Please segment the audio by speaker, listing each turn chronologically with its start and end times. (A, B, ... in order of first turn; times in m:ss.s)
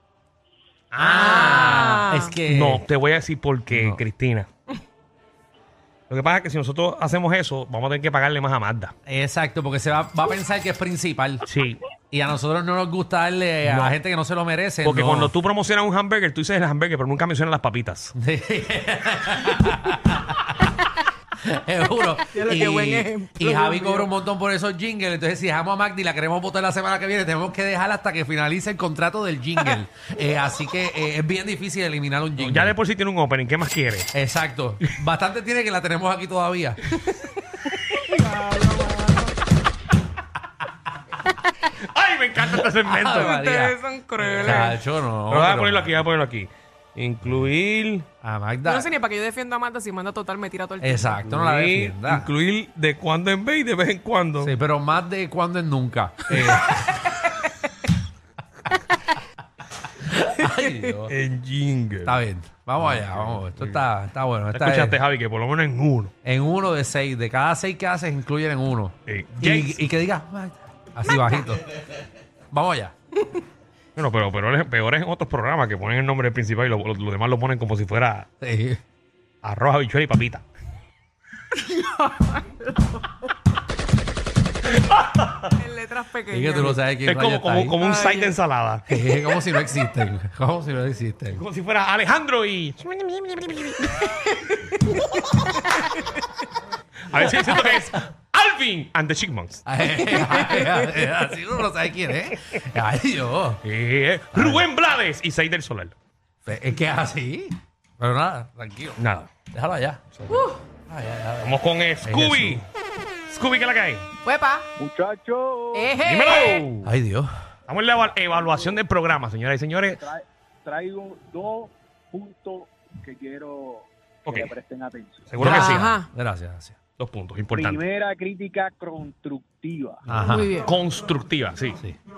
0:00.9-0:01.9 A
0:01.0-0:02.8 B
0:01.2-0:02.4 C
0:02.5-0:04.5 A
0:03.7-0:04.0 B
0:06.1-0:08.9 A
0:09.1-0:11.4 B
0:11.5-0:11.8 A
0:12.1-0:15.3 B
0:13.6-0:14.0 A
0:14.8-0:18.1 A
0:18.2-0:20.5 B
0:21.4-0:32.8 B
0:22.3-0:24.1 C
0:32.4-0:34.1 A
0:34.1-0:36.8 B
0:37.7-0:39.3 C
0:41.8-0:43.3 A
0:42.8-0:43.8 B
0:43.1-0:44.7 C
0:44.2-0:44.8 A
0:44.4-0:46.0 B
0:45.3-0:48.1 A
0:48.2-0:48.9 B
0:48.7-0:51.2 C
0:50.8-0:52.3 B
0:51.2-0:54.5 A
0:54.4-0:57.0 B
1:00.1-1:01.2 B
1:00.2-1:01.0 C
1:01.1-1:02.2 A
1:02.0-1:05.0 B
1:02.8-1:03.8 A
1:04.5-1:06.1 A
1:06.2-1:11.7 B
1:09.1-1:09.8 A
1:12.5-1:12.9 B
1:14.0-1:18.3 A
1:18.4-1:18.8 B
1:19.4-1:20.4 A
1:21.5-1:23.1 C
1:24.9-1:25.4 A
1:25.6-1:26.8 C
1:26.3-1:27.8 B
1:27.1-1:28.8 A
1:27.8-1:28.3 C
1:28.9-1:31.4 B
1:31.3-1:33.9 A
1:33.9-1:35.2 C
1:37.1-1:40.1 A
1:39.7-1:43.6 B
1:40.5-1:40.8 C
1:43.6-1:46.0 A
1:44.3-1:44.7 B
1:46.4-1:49.0 B
1:49.0-1:49.3 A
1:49.5-1:50.2 B
1:50.3-1:50.6 C
1:50.9-1:52.6 B
1:51.4-1:52.6 A
1:53.3-1:54.1 A
1:54.2-1:54.7 C
1:54.8-1:55.9 D
1:55.7-1:56.6 C
1:56.0-1:56.9 A
1:56.8-1:57.3 B
1:57.7-2:00.0 A
1:58.1-1:58.8 D
1:59.9-2:05.4 D
2:04.3-2:04.5 A
2:05.3-2:06.0 A
2:05.4-2:06.8 B
2:05.4-2:06.1 C
2:07.0-2:07.9 A
2:07.5-2:10.0 D
2:10.1-2:10.5 B
2:10.3-2:10.7 C
2:10.4-2:11.8 A